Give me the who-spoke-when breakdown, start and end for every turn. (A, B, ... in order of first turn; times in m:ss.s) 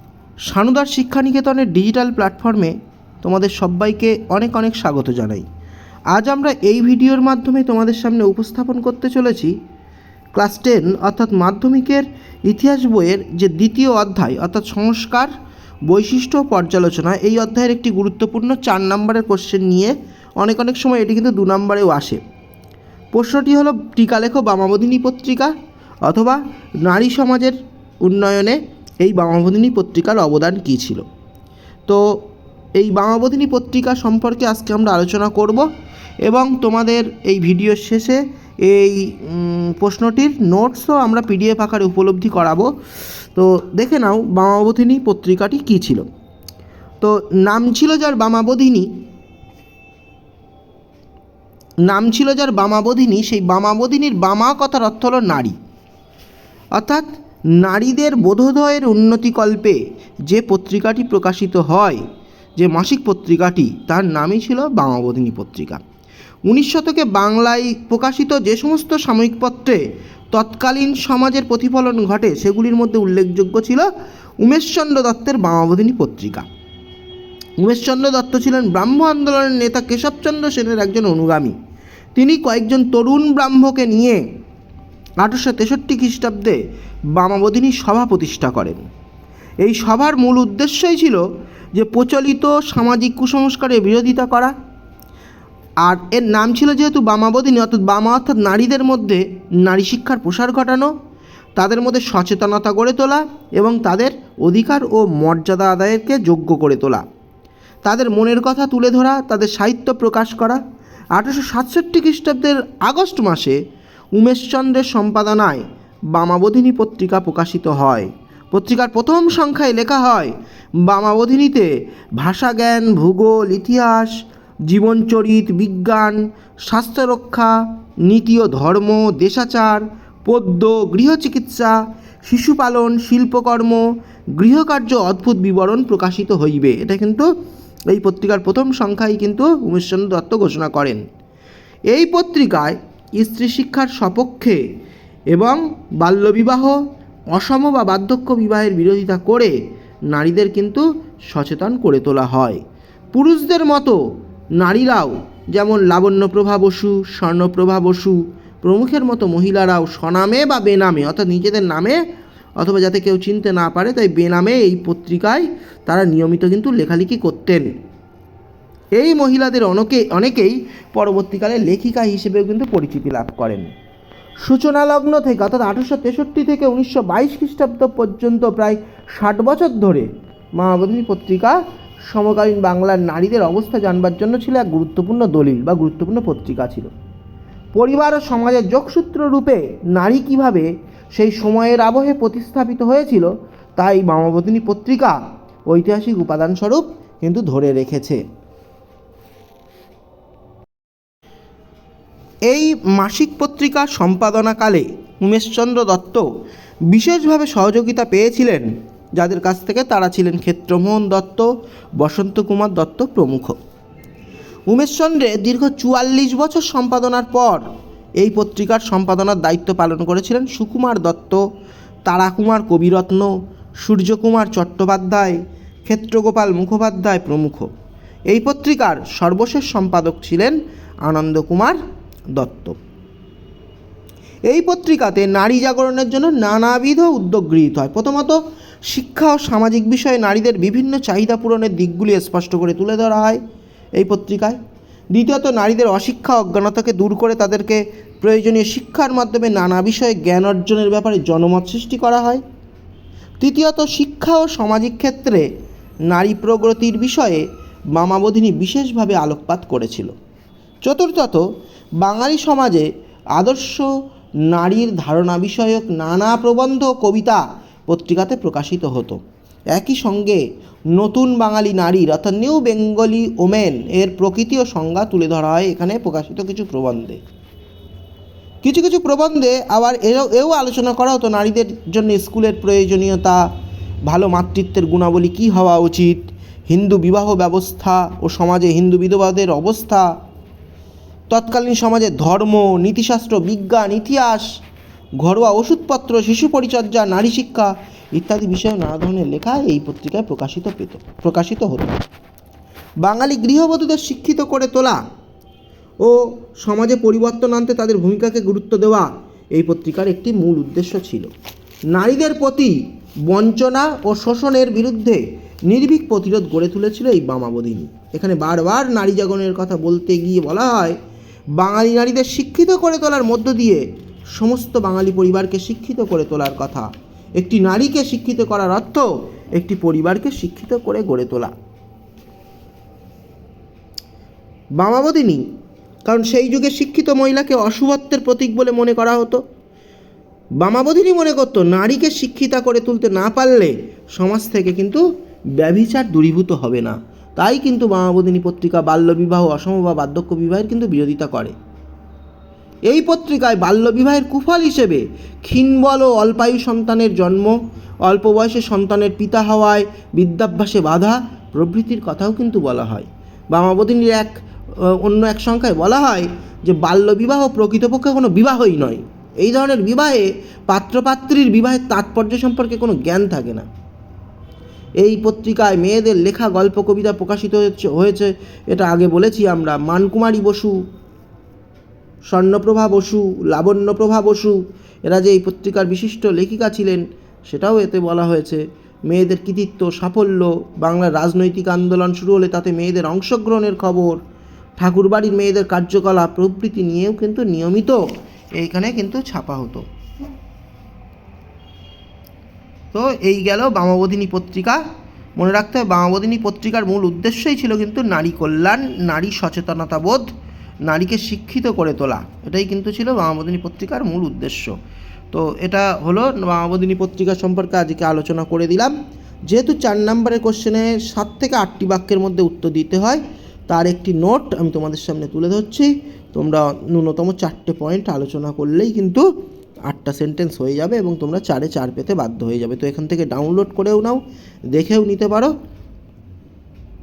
0:00.5-0:05.4 A
0:06.1-0:09.5 A
0:10.3-0:15.3 A
0:15.9-0:22.2 A
0:23.1-0:25.5 A
0:26.0-0:31.0 A
0:32.8-0:35.7 A
0:36.2-0:42.7 A
0:43.3-0:46.0 A
0:47.0-0:48.9 A
0:51.9-0:55.5 A
0:56.8-0:57.1 A
0:57.6-1:02.0 A
1:02.6-1:05.8 A
1:06.5-1:09.8 A
1:10.3-1:13.9 A
1:14.4-1:16.4 A
1:17.6-1:21.5 A
1:22.2-1:24.2 A
1:25.2-1:26.6 A
1:27.1-1:28.8 A
1:29.6-1:31.2 A
1:31.7-1:34.5 A
1:35.8-1:40.9 A
1:41.6-1:47.0 A
1:47.8-1:50.6 A
1:51.1-1:53.6 A
1:54.1-1:55.6 A
1:56.1-2:00.3 A
2:00.8-2:01.7 A
2:02.2-2:04.2 A
2:04.7-2:07.5 A
2:08.0-2:13.8 A
2:14.4-2:17.2 A
2:17.9-2:21.0 A
2:21.9-2:24.6 A
2:25.3-2:26.8 A
2:27.3-2:29.5 A
2:30.1-2:32.6 A
2:33.1-2:34.0 A
2:34.6-2:42.0 A
2:42.6-2:47.7 A
2:49.0-2:53.7 A
2:54.4-3:00.1 A
3:00.6-3:01.6 A
3:02.1-3:06.9 A
3:07.7-3:15.2 A
3:15.7-3:18.2 A
3:22.5-3:26.2 A
3:26.9-3:28.6 A
3:29.2-3:31.4 A
3:32.0-3:33.6 A
3:34.7-3:37.6 A
3:38.2-3:41.4 A
3:42.0-3:43.3 A
3:43.8-3:47.7 A
3:48.3-3:51.8 A
3:52.4-3:52.8 A
3:54.5-4:03.4 A
4:04.0-4:04.6 A
4:05.1-4:12.4 A
4:13.4-4:15.4 A
4:16.1-4:20.1 A
4:20.8-4:21.4 A
4:22.0-4:23.9 A
4:24.5-4:29.2 A
4:29.7-4:30.4 A
4:30.9-4:37.2 A
4:38.6-4:43.4 A
4:44.0-4:50.1 A
4:51.3-4:54.5 A
4:55.2-5:02.0 A
5:03.0-5:05.0 A
5:06.0-5:11.3 A
5:11.9-5:21.0 A
5:21.6-5:23.8 A
5:24.4-5:31.5 A
5:34.8-5:35.4 A
5:36.0-5:39.4 A
5:40.6-5:45.0 A
5:45.6-5:51.5 A
5:52.9-5:57.5 A
5:58.0-6:13.6 A
6:15.0-6:20.8 A
6:22.3-6:34.2 A
6:34.8-6:38.0 A
6:38.6-6:39.8 A
6:42.9-6:44.8 A
6:45.4-6:50.3 A
6:50.8-6:54.7 A
6:55.3-6:58.9 A
6:59.5-7:09.2 A
7:09.9-7:14.2 A
7:14.7-7:15.5 A